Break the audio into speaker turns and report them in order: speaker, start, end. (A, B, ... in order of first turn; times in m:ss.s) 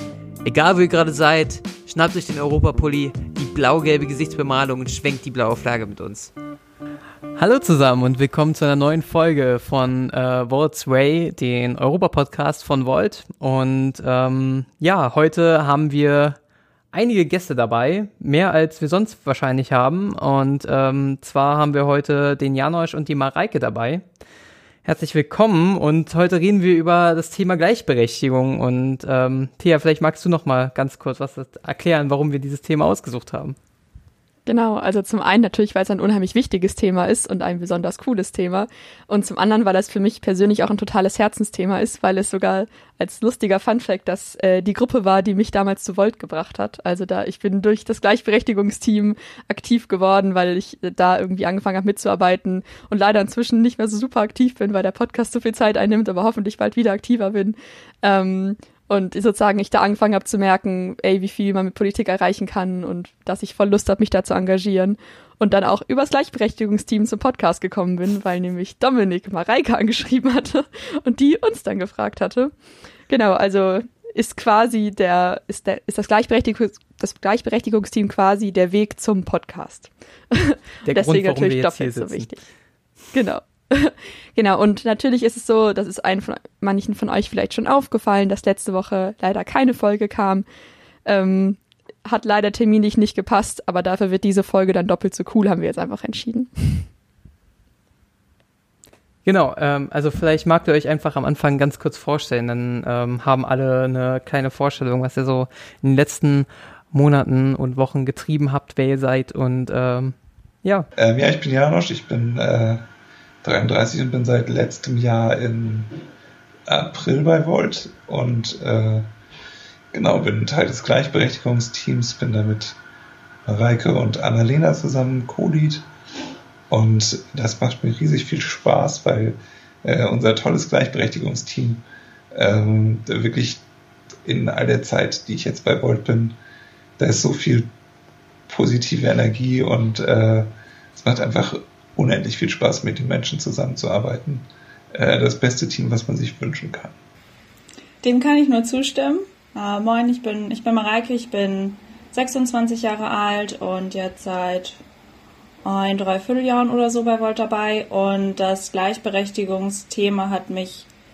0:00.4-0:06.3 A
0:07.4-0:16.4 B
0:16.9-0:24.0 B
0:24.8-0:33.6 B
0:34.5-1:12.5 C
1:13.1-1:22.4 C
1:20.8-1:22.3 B
1:23.1-1:30.4 C
1:31.1-1:36.9 C
1:39.2-1:50.9 B
1:51.0-1:52.8 D
1:53.4-1:56.0 D
1:56.7-1:59.1 D
1:59.9-2:02.8 D
2:03.5-2:05.8 D
2:06.7-2:13.6 D
2:14.2-2:16.4 D
2:17.0-2:17.7 D
2:18.5-2:27.0 D
2:28.0-2:34.8 E
2:35.6-2:40.9 E